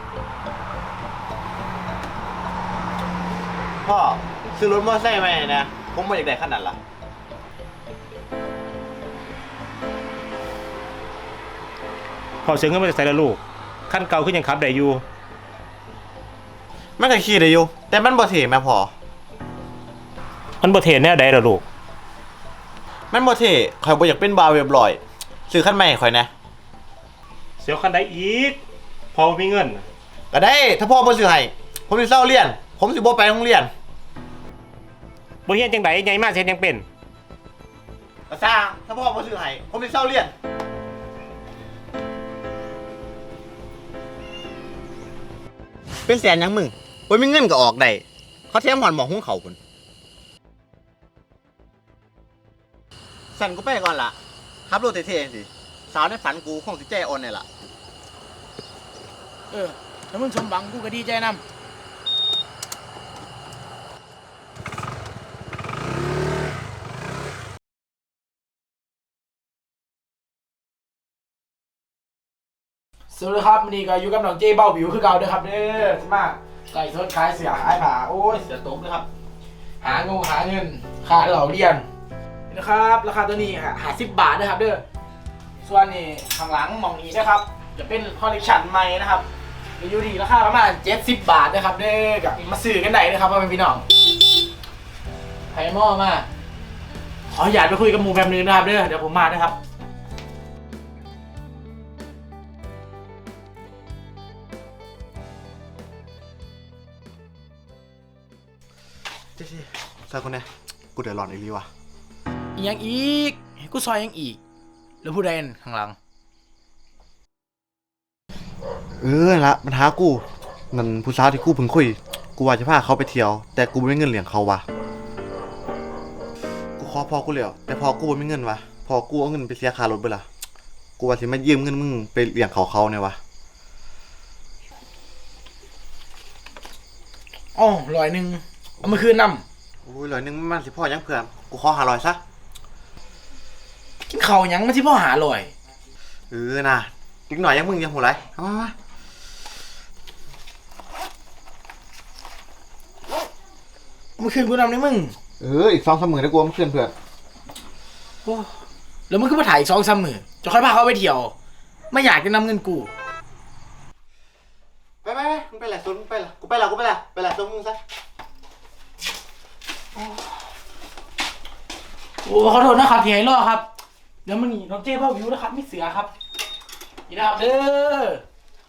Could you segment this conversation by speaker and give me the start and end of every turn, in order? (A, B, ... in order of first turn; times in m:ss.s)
0:03.8-0:06.8 A
0:12.4-0:15.0 B
0:17.0-0:18.9 A
0:20.6-0:21.6 B
0:23.1-0:26.3 A
0:27.6-0:28.6 B
0:29.1-0:29.8 B
0:30.3-0:33.7 A
0:35.5-0:36.8 B
0:38.3-0:40.3 A
0:46.1-0:49.6 A
0:53.4-0:54.2 A
0:54.7-0:57.5 A
0:59.5-1:01.4 C
1:13.1-1:19.1 C
1:19.8-1:21.9 C
1:22.5-1:24.8 C
1:25.6-1:29.3 C
1:29.8-1:33.8 C
1:35.5-1:36.3 C
1:37.3-1:39.6 C
1:49.4-1:51.7 A
1:52.6-1:54.4 C
1:55.0-1:56.0 C
1:59.0-2:04.6 A
2:06.8-2:10.2 A
2:11.0-2:13.2 A
2:17.6-2:19.4 C
2:19.9-2:22.2 A
2:24.1-2:25.5 C
2:26.3-2:28.8 A
2:34.2-2:35.2 C
2:35.4-2:36.9 A
2:38.2-2:38.5 C
2:39.1-2:41.3 C
2:41.9-2:42.9 C
2:45.0-2:47.8 A
2:52.2-2:53.7 C
2:54.2-2:56.1 C
2:57.1-2:58.2 C